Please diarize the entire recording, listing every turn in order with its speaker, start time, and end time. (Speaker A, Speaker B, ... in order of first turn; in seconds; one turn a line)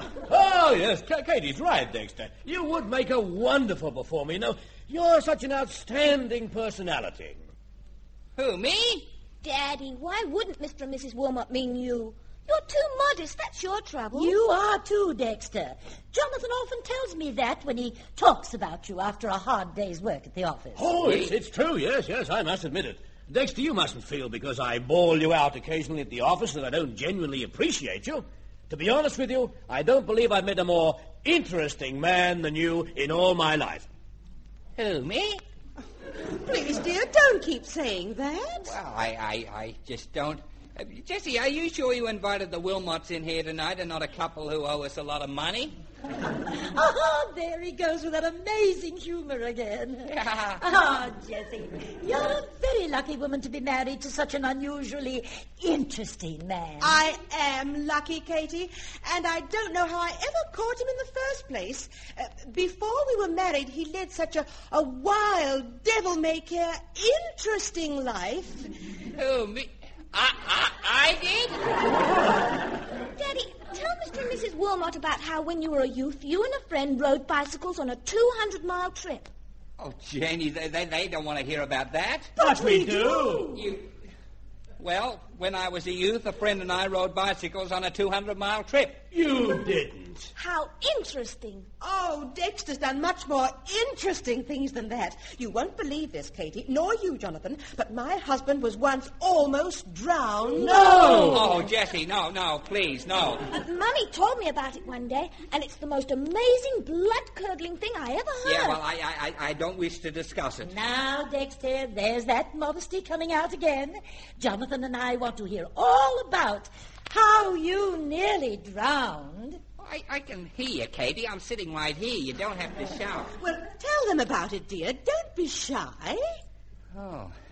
Speaker A: 0.3-7.4
Speaker B: 8.4-9.1
Speaker C: 9.4-14.3
Speaker D: 14.1-21.0
Speaker A: 20.8-33.9
Speaker B: 21.1-21.3
Speaker B: 34.8-35.4
Speaker E: 36.4-38.7
Speaker B: 38.6-45.8
Speaker D: 46.6-57.0
Speaker B: 50.1-50.6
Speaker E: 56.8-68.6
Speaker B: 69.2-71.8
Speaker C: 73.2-79.3
Speaker B: 79.8-82.3
Speaker E: 82.4-83.6
Speaker A: 82.4-83.5
Speaker B: 83.5-83.9
Speaker B: 84.8-89.0
Speaker A: 89.1-90.3
Speaker C: 90.4-91.7
Speaker E: 91.8-100.7
Speaker A: 100.6-101.6
Speaker B: 101.2-103.5
Speaker C: 103.5-108.8
Speaker B: 108.4-110.7
Speaker D: 110.6-119.6
Speaker B: 119.8-123.3
Speaker E: 123.4-126.2
Speaker B: 126.9-127.3